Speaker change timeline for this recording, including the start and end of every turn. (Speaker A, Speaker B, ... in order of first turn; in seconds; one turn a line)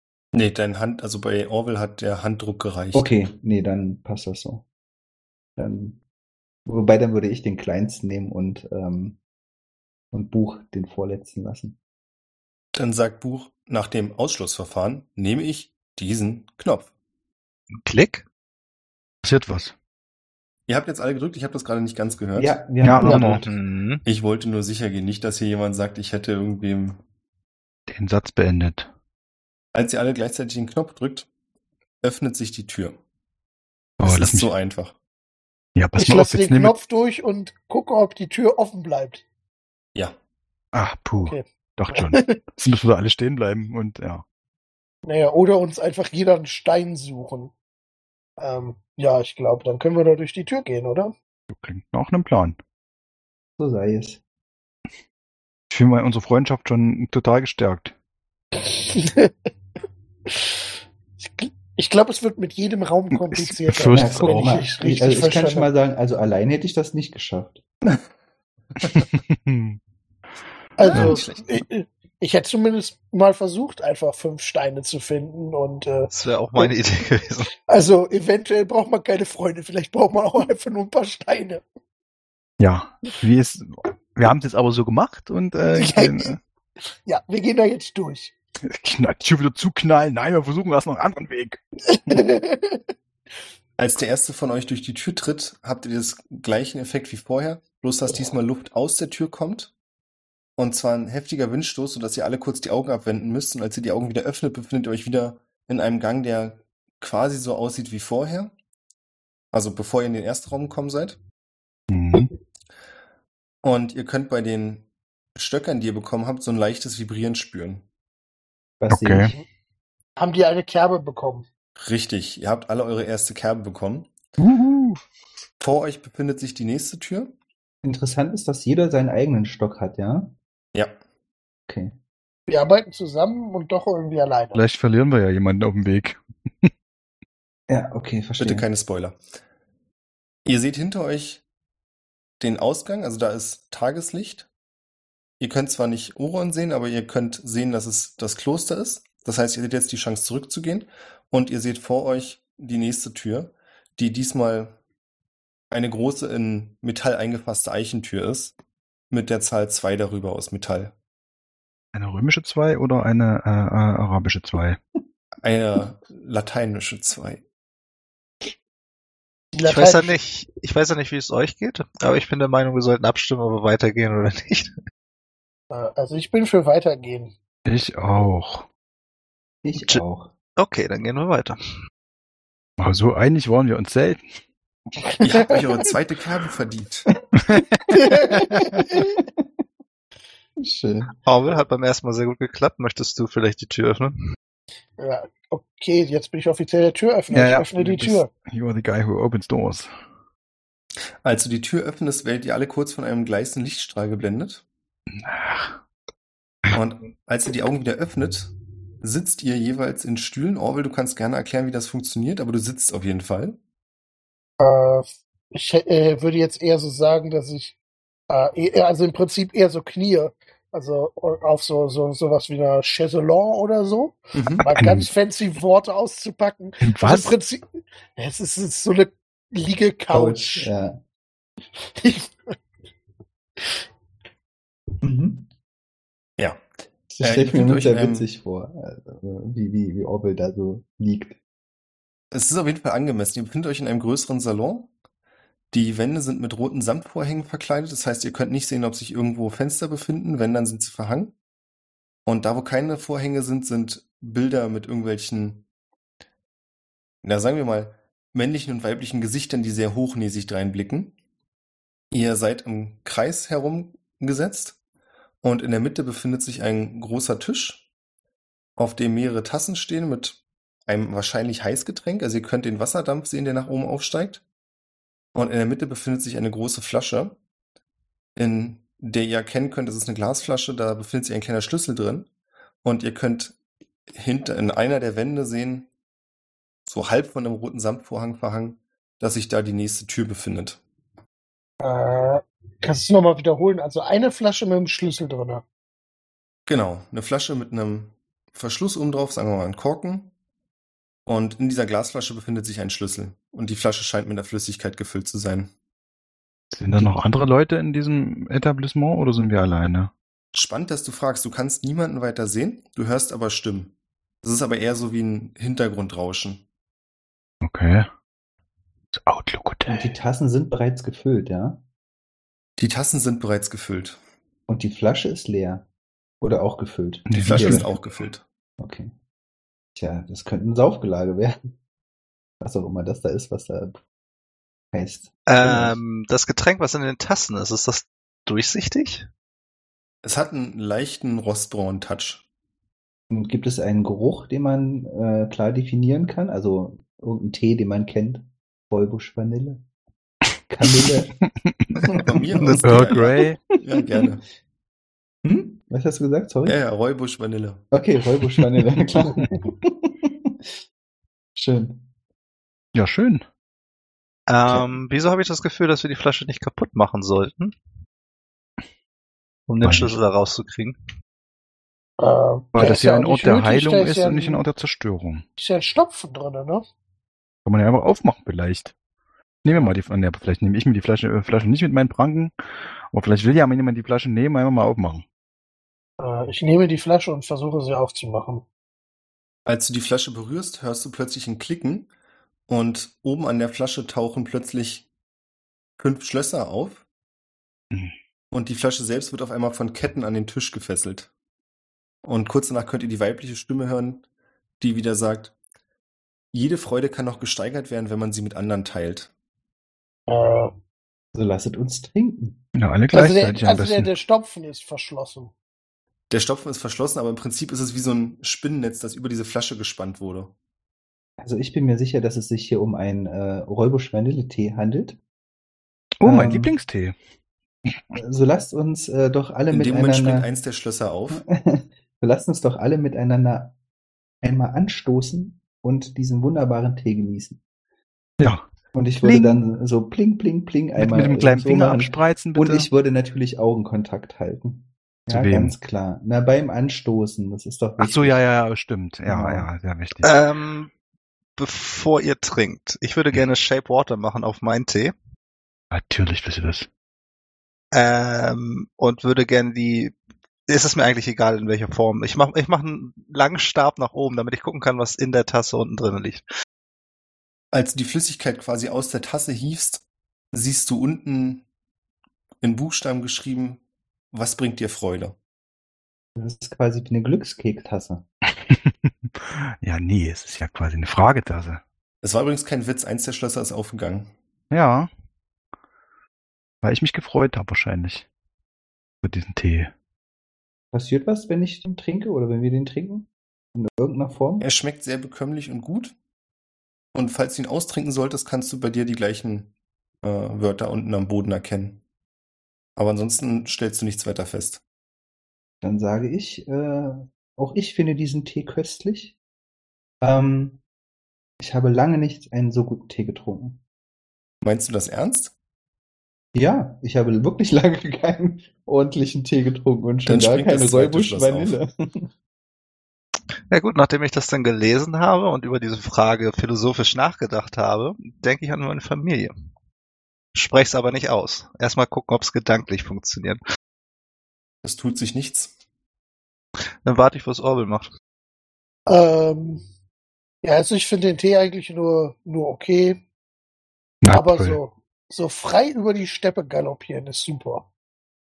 Speaker A: 0.3-3.1
Speaker B: 2.9-4.6
Speaker B: 5.6-6.0
Speaker B: 6.7-9.2
Speaker B: 10.1-11.8
Speaker A: 12.7-16.9
Speaker C: 17.8-18.2
Speaker D: 19.2-19.7
Speaker A: 20.7-22.6
Speaker B: 22.4-23.5
Speaker D: 22.8-23.4
Speaker C: 23.1-24.0
Speaker A: 24.0-27.0
Speaker D: 27.9-28.9
Speaker A: 29.7-31.3
Speaker A: 32.0-33.0
Speaker D: 34.0-34.5
Speaker A: 34.0-35.0
Speaker D: 35.8-36.8
Speaker E: 36.0-39.2
Speaker D: 40.7-44.2
Speaker E: 41.2-42.4
Speaker E: 45.0-47.5
Speaker E: 48.4-51.1
Speaker D: 51.5-52.6
Speaker B: 53.6-54.2
Speaker D: 55.7-57.9
Speaker E: 58.6-59.3
Speaker E: 60.3-60.6
Speaker E: 61.2-65.7
Speaker D: 63.1-64.3
Speaker B: 63.9-67.6
Speaker D: 69.1-69.8
Speaker E: 70.8-76.7
Speaker D: 70.9-71.2
Speaker A: 70.9-71.6
Speaker C: 76.1-77.5
Speaker E: 77.7-81.6
Speaker D: 82.6-86.4
Speaker E: 85.7-86.3
Speaker E: 87.0-88.3
Speaker D: 88.7-92.2
Speaker E: 91.9-92.8
Speaker A: 93.8-99.7
Speaker A: 100.6-108.5
Speaker A: 109.5-111.2
Speaker D: 111.9-112.3
Speaker A: 113.6-117.8
Speaker B: 118.8-119.3
Speaker D: 118.9-119.3
Speaker E: 120.2-121.5
Speaker A: 121.8-124.1
Speaker D: 124.4-125.0
Speaker A: 125.6-127.3
Speaker B: 127.8-130.3
Speaker B: 131.7-131.9
Speaker E: 132.5-134.6
Speaker D: 134.5-136.7
Speaker B: 137.7-138.7
Speaker A: 138.4-139.2
Speaker A: 140.4-141.4
Speaker A: 142.4-144.5
Speaker A: 145.4-154.7
Speaker A: 155.7-158.6
Speaker A: 159.1-160.9
Speaker D: 161.9-164.8
Speaker A: 165.4-167.4
Speaker E: 169.5-170.2
Speaker C: 169.6-174.7
Speaker E: 175.7-177.3
Speaker D: 177.7-178.7
Speaker B: 179.6-180.3
Speaker C: 179.8-180.0
Speaker C: 180.6-181.6
Speaker D: 182.8-184.4
Speaker E: 185.0-185.5
Speaker A: 185.2-187.1
Speaker D: 187.4-188.8
Speaker E: 187.9-189.0
Speaker B: 190.6-191.1
Speaker C: 191.2-194.2
Speaker E: 195.0-198.3
Speaker D: 197.3-199.9
Speaker A: 201.2-204.6
Speaker D: 205.1-205.8
Speaker A: 206.7-213.6
Speaker E: 214.6-217.8
Speaker E: 218.3-227.6
Speaker A: 224.3-224.6
Speaker D: 224.7-225.1
Speaker D: 226.8-227.3
Speaker E: 228.2-230.7
Speaker B: 230.1-231.0
Speaker E: 231.8-232.5
Speaker B: 235.0-235.5
Speaker A: 236.4-236.6
Speaker B: 237.1-241.4
Speaker A: 237.2-238.3
Speaker A: 242.3-244.9
Speaker A: 245.7-251.3
Speaker A: 252.2-255.6
Speaker A: 257.2-261.1
Speaker A: 262.1-264.8
Speaker A: 265.4-267.9
Speaker A: 268.8-274.4
Speaker A: 275.3-277.4
Speaker A: 278.4-282.3
Speaker A: 282.8-283.6
Speaker A: 284.1-285.9
Speaker A: 286.9-290.8
Speaker E: 291.8-295.6
Speaker A: 296.7-300.3
Speaker A: 301.2-305.7
Speaker D: 306.7-310.1
Speaker A: 310.5-316.6
Speaker D: 317.6-318.1
Speaker D: 319.1-320.1
Speaker B: 319.9-321.8
Speaker A: 322.8-324.2
Speaker B: 324.7-325.9
Speaker B: 326.4-327.9
Speaker D: 327.3-327.9
Speaker A: 327.4-328.4
Speaker B: 328.8-329.1
Speaker B: 329.9-331.6
Speaker B: 332.6-334.0
Speaker B: 334.9-336.0
Speaker C: 335.5-339.3
Speaker A: 340.2-342.4
Speaker B: 343.3-349.8
Speaker B: 350.7-351.3
Speaker D: 351.0-352.0
Speaker B: 352.1-353.2
Speaker A: 352.2-354.4
Speaker C: 352.6-353.1
Speaker D: 352.8-353.6
Speaker B: 355.4-356.8
Speaker A: 356.6-357.8
Speaker B: 357.9-360.6
Speaker B: 361.6-362.1
Speaker D: 362.9-363.4
Speaker C: 364.5-367.7
Speaker C: 369.7-371.0
Speaker D: 369.8-370.1
Speaker E: 372.2-374.6
Speaker D: 372.7-375.4
Speaker E: 375.6-376.8
Speaker D: 377.6-378.9
Speaker D: 379.6-382.5
Speaker D: 383.1-385.2
Speaker E: 386.2-388.6
Speaker A: 389.6-392.1
Speaker A: 392.7-395.1
Speaker A: 396.0-397.0
Speaker A: 398.5-401.3
Speaker A: 402.2-404.2
Speaker A: 404.8-405.5
Speaker A: 406.5-409.3
Speaker E: 410.3-410.7
Speaker B: 411.3-412.6
Speaker D: 412.8-414.1
Speaker E: 413.1-415.5
Speaker A: 416.3-420.5
Speaker B: 421.4-425.2
Speaker D: 426.2-427.1
Speaker B: 426.2-426.7
Speaker B: 428.1-430.5
Speaker A: 429.7-431.4
Speaker B: 431.3-433.7
Speaker B: 434.4-437.6
Speaker B: 438.9-448.4
Speaker D: 439.2-439.6
Speaker D: 440.9-442.9
Speaker D: 445.3-445.8
Speaker D: 448.0-450.3
Speaker B: 449.2-449.7
Speaker C: 450.2-450.9
Speaker C: 451.6-455.1
Speaker D: 455.9-456.9
Speaker C: 457.9-460.1
Speaker C: 460.7-466.4
Speaker A: 467.7-471.6
Speaker A: 472.6-473.8
Speaker A: 474.3-475.4
Speaker B: 476.4-478.2
Speaker D: 478.6-481.8
Speaker A: 482.2-484.3
Speaker D: 484.7-485.1
Speaker D: 486.8-488.3
Speaker D: 489.2-489.9
Speaker B: 490.9-494.6
Speaker A: 494.6-496.1
Speaker A: 497.1-499.7
Speaker A: 500.2-502.0
Speaker A: 502.9-504.8
Speaker B: 505.8-509.4
Speaker B: 510.2-510.8
Speaker B: 511.6-513.8
Speaker A: 514.6-515.5
Speaker B: 516.5-522.3
Speaker A: 520.2-521.8
Speaker C: 523.7-529.5
Speaker C: 530.5-533.6
Speaker A: 534.8-535.7
Speaker C: 537.0-538.1
Speaker E: 539.1-539.8
Speaker E: 540.6-543.2
Speaker D: 544.2-544.8
Speaker E: 544.3-547.9